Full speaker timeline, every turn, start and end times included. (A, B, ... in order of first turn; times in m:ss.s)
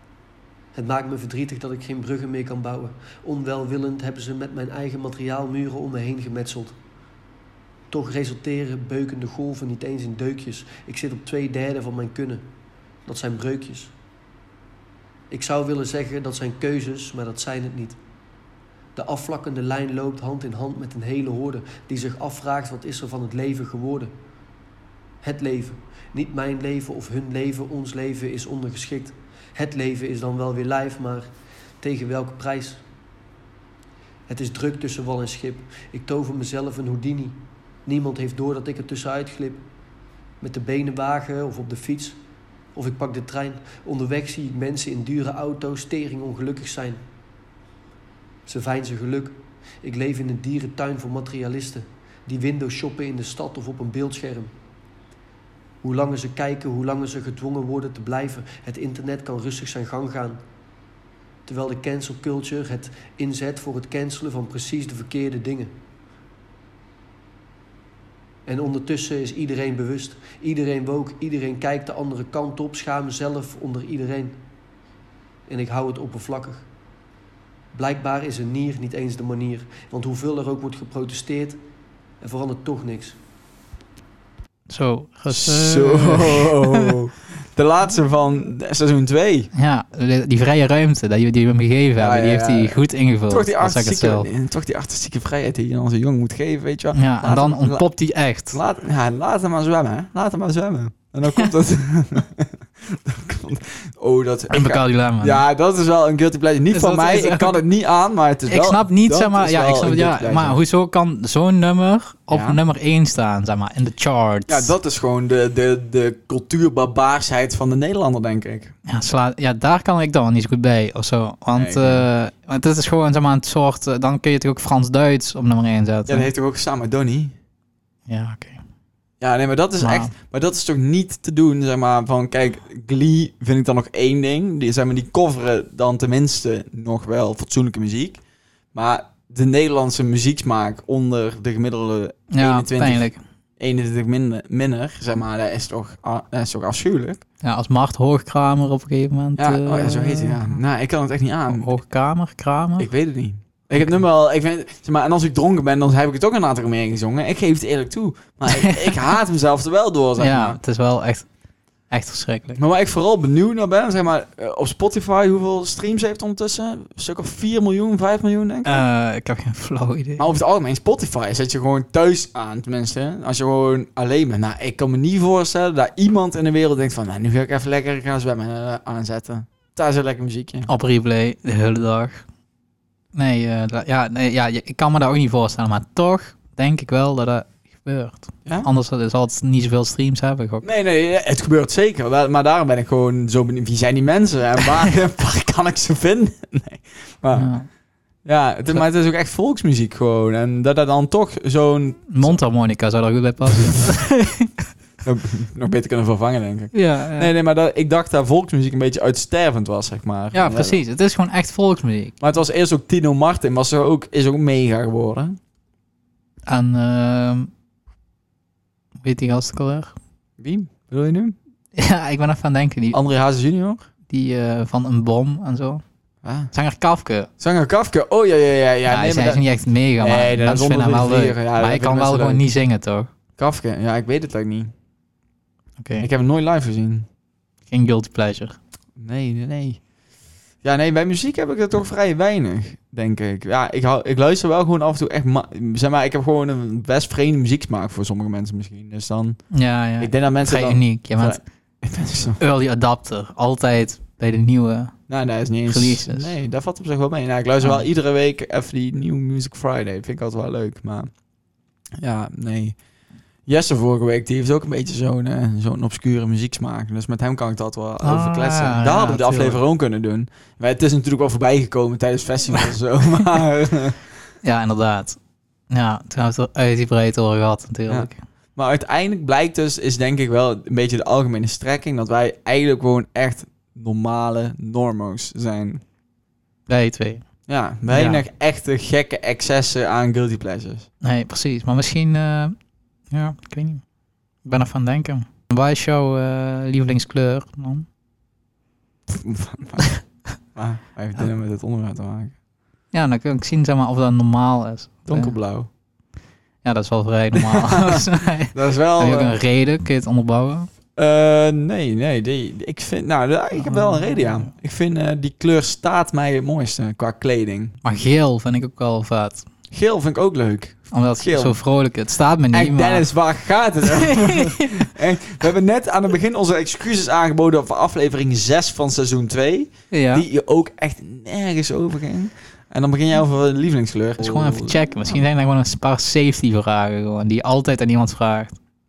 0:00.7-0:06.8 A
0:07.9-0:12.4 A
0:13.0-0:13.9 A
0:15.3-0:18.0 A
0:18.9-0:24.1 A
0:25.2-0:31.3 A
0:31.8-0:32.8 A
0:34.3-0:39.6 A
0:40.4-0:42.2 A
0:42.7-0:47.0 A
0:48.4-0:54.5 A
0:55.8-1:00.4 A
1:01.5-1:05.7 A
1:08.4-1:14.4 A
1:15.5-1:16.6 A
1:17.7-1:21.6 A
1:22.2-1:23.2 A
1:24.7-1:27.0 B
1:25.3-1:29.5 C
1:29.5-1:34.3 B
1:32.0-1:37.9 C
1:36.9-1:38.6 B
1:38.5-1:50.6 C
1:44.5-1:45.4 B
1:46.7-1:47.6 B
1:48.5-1:54.7 B
1:52.3-1:52.6 C
1:54.5-1:58.7 C
1:58.8-2:06.3 B
2:01.5-2:02.0 C
2:06.1-2:07.3 C
2:08.1-2:08.6 B
2:09.2-2:18.2 C
2:09.8-2:10.1 B
2:18.7-2:23.1 C
2:22.3-2:23.2 B
2:23.6-2:27.2 C
2:27.4-2:30.6 B
2:29.4-2:31.7 C
2:31.5-2:32.9 B
2:32.8-2:40.6 C
2:33.7-2:34.0 B
2:38.5-2:39.0 B
2:40.2-2:41.3 B
2:41.9-2:42.6 B
2:42.6-2:48.8 C
2:48.6-2:50.2 B
2:50.2-3:00.7 C
3:00.7-3:02.2 B
3:03.1-3:10.6 B
3:10.6-3:17.5 C
3:17.3-3:17.7 B
3:18.2-3:22.4 C
3:22.1-3:24.5 B
3:25.0-3:30.8 C
3:26.7-3:27.3 B
3:30.3-3:32.1 B
3:32.2-3:35.4 C
3:36.4-3:37.5 B
3:39.0-3:39.9 B
3:40.4-3:41.4 C
3:41.7-3:43.0 B
3:42.9-3:43.8 C
3:44.1-3:45.8 B
3:46.2-3:46.5 C
3:46.5-3:47.3 B
3:47.4-3:49.4 C
3:48.9-3:53.1 B
3:50.0-3:52.4 C
3:53.4-3:54.7 C
3:55.8-3:56.1 B
3:56.0-3:57.0 C
3:57.7-3:58.6 B
3:59.0-3:59.8 C
4:00.6-4:09.4 C
4:09.5-4:11.4 B
4:10.0-4:12.4 C
4:12.4-4:15.0 B
4:15.1-4:21.1 C
4:15.7-4:16.4 B
4:17.6-4:17.8 B
4:22.0-4:22.8 C
4:23.4-4:34.0 C
4:28.0-4:29.6 B
4:34.4-4:35.2 B
4:35.7-4:38.2 B
4:37.9-4:45.8 C
4:46.7-4:47.2 B
4:47.5-4:50.9 C
4:47.9-4:48.2 B
4:51.0-4:52.6 B
4:53.1-4:53.8 B
4:54.4-4:57.8 B
4:59.1-4:59.9 C
5:00.5-5:02.3 C
5:02.9-5:05.3 B
5:05.1-5:05.7 C
5:06.6-5:10.7 B
5:07.4-5:09.4 C
5:11.0-5:17.8 C
5:13.5-5:14.5 B
5:17.8-5:19.4 B
5:19.7-5:21.6 C
5:20.9-5:23.1 B
5:22.5-5:35.1 C
5:23.9-5:24.9 B
5:29.9-5:30.2 B
5:34.2-5:38.6 B